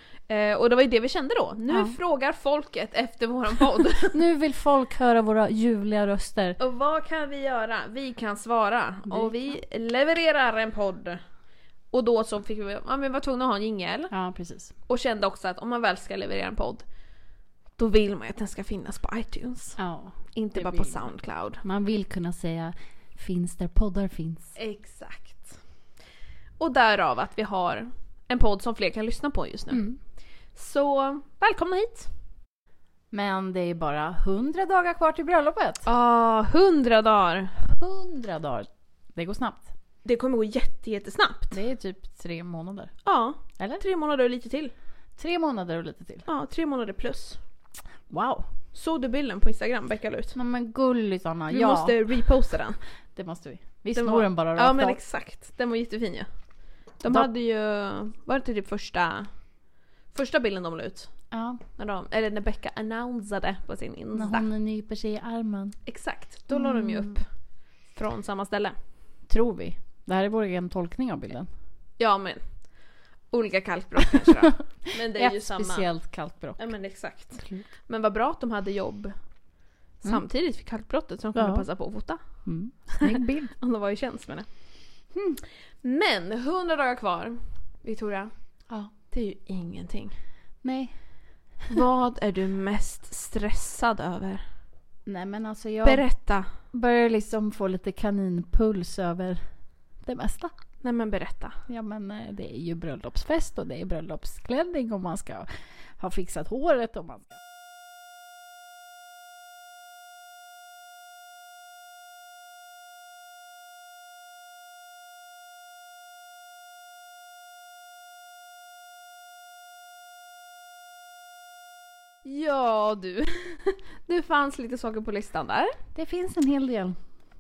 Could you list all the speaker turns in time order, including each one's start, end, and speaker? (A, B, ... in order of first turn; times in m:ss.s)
0:00.3-0:04.2 A
0:01.7-0:02.0 B
0:04.1-0:06.6 B
0:06.6-0:11.2 A
0:09.1-0:09.4 B
0:11.9-0:14.1 A
0:14.1-0:14.7 B
0:14.9-0:16.8 A
0:17.8-0:19.8 A
0:19.8-0:21.1 B
0:20.3-0:21.6 A
0:21.6-0:24.6 B
0:24.6-0:25.6 A
0:26.6-0:29.9 A
0:29.7-0:30.0 B
0:30.5-0:32.1 A
0:33.1-0:35.9 B
0:35.8-0:37.5 A
0:37.6-0:39.7 B
0:40.0-0:41.6 A
0:41.5-0:43.0 B
0:43.0-0:44.7 A
0:43.6-0:43.8 B
0:45.2-0:46.2 B
0:46.2-0:47.4 A
0:48.1-0:48.5 B
0:48.7-0:50.4 A
0:50.4-0:52.0 B
0:51.5-0:52.8 A
0:53.1-0:55.0 B
0:54.0-0:56.3 A
0:57.0-0:59.3 A
1:00.1-1:01.2 A
1:01.3-1:01.6 B
1:01.8-1:04.5 A
1:04.1-1:05.8 B
1:05.9-1:07.3 A
1:06.5-1:07.2 B
1:07.9-1:08.8 A
1:09.3-1:11.5 B
1:12.0-1:12.7 A
1:13.3-1:15.9 A
1:15.1-1:17.7 B
1:16.6-1:19.1 A
1:20.0-1:23.0 A
1:21.4-1:21.7 B
1:22.2-1:23.5 B
1:23.6-1:24.6 A
1:25.1-1:25.4 B
1:25.8-1:28.3 A
1:29.1-1:30.2 A
1:30.6-1:31.0 B
1:31.7-1:34.5 A
1:35.1-1:36.0 B
1:35.8-1:36.5 A
1:36.6-1:40.5 B
1:40.8-1:41.6 A
1:41.7-1:47.4 B
2:02.2-2:05.8 A
2:06.0-2:07.0 B